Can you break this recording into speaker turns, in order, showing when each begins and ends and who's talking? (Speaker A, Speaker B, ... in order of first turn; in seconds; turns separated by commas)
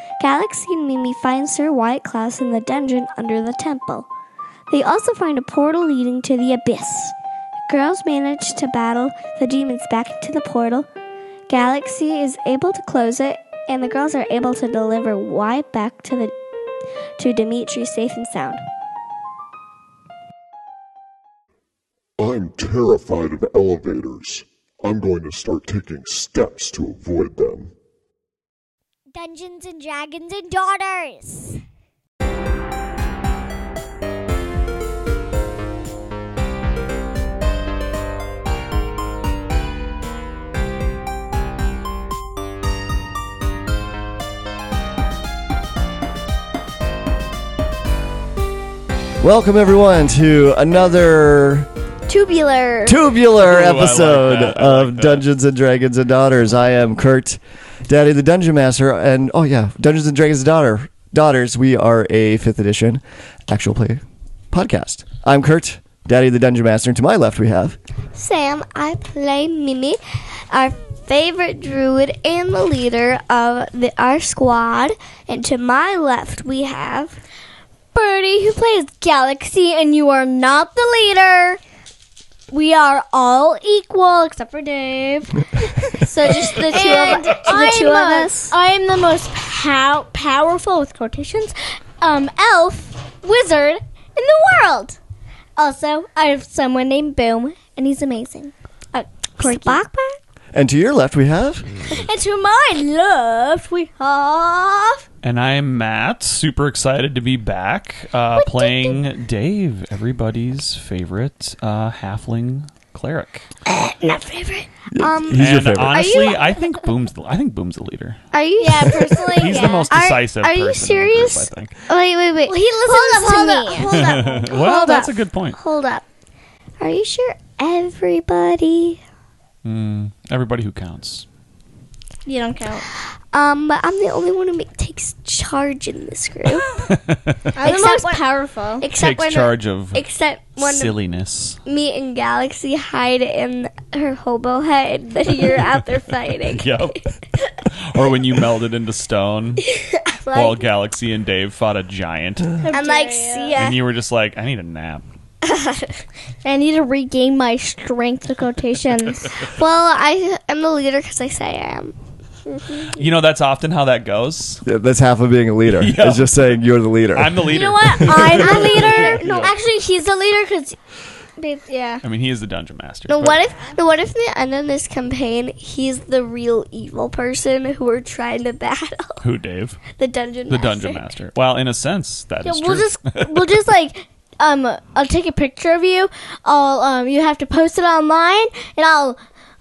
Speaker A: 0.2-4.1, Speaker A: 4.7-7.1, Speaker A: 7.7-10.9, Speaker A: 11.5-16.3, Speaker A: 17.2-18.6, Speaker B: 22.2-27.7, Speaker C: 29.1-31.6, Speaker D: 49.2-51.7, Speaker A: 52.1-53.0, Speaker D: 52.9-67.8, Speaker E: 53.4-55.2, Speaker A: 68.1-77.2, Speaker C: 77.9-81.6, Speaker C: 82.5-85.4, Speaker A: 85.9-88.5, Speaker C: 86.7-95.0, Speaker C: 95.5-99.8, Speaker A: 99.4-100.2, Speaker D: 100.5-101.7, Speaker C: 101.9-105.0, Speaker E: 105.2-113.4, Speaker C: 108.3-109.0, Speaker A: 113.7-116.7, Speaker D: 114.9-116.2, Speaker E: 115.3-118.2, Speaker A: 118.3-120.4, Speaker C: 118.6-121.4, Speaker E: 119.3-121.7, Speaker A: 121.9-126.0, Speaker C: 122.4-124.0, Speaker E: 123.8-125.6, Speaker A: 126.8-129.0, Speaker E: 129.6-131.2, Speaker C: 132.2-132.8, Speaker A: 132.9-136.7, Speaker E: 136.8-137.4, Speaker C: 137.5-138.9, Speaker A: 137.6-138.2, Speaker A: 138.8-140.9, Speaker E: 138.9-140.0, Speaker E: 140.6-141.6, Speaker A: 141.6-146.8, Speaker C: 145.2-145.6, Speaker E: 146.3-147.0, Speaker E: 147.7-149.7, Speaker A: 149.9-150.7, Speaker E: 150.3-152.6, Speaker C: 152.6-153.7, Speaker A: 152.7-153.8, Speaker E: 153.5-155.0, Speaker A: 155.4-156.0, Speaker C: 156.4-159.3, Speaker A: 159.5-161.9, Speaker A: 162.4-162.9, Speaker E: 162.9-164.6, Speaker D: 164.6-167.5, Speaker E: 165.7-166.5, Speaker E: 167.1-169.5, Speaker C: 167.5-170.8, Speaker A: 168.3-169.6, Speaker C: 171.4-172.0, Speaker E: 172.0-173.4, Speaker A: 173.1-179.2, Speaker E: 179.2-179.8, Speaker A: 179.9-181.1, Speaker E: 180.5-183.4, Speaker C: 182.4-189.2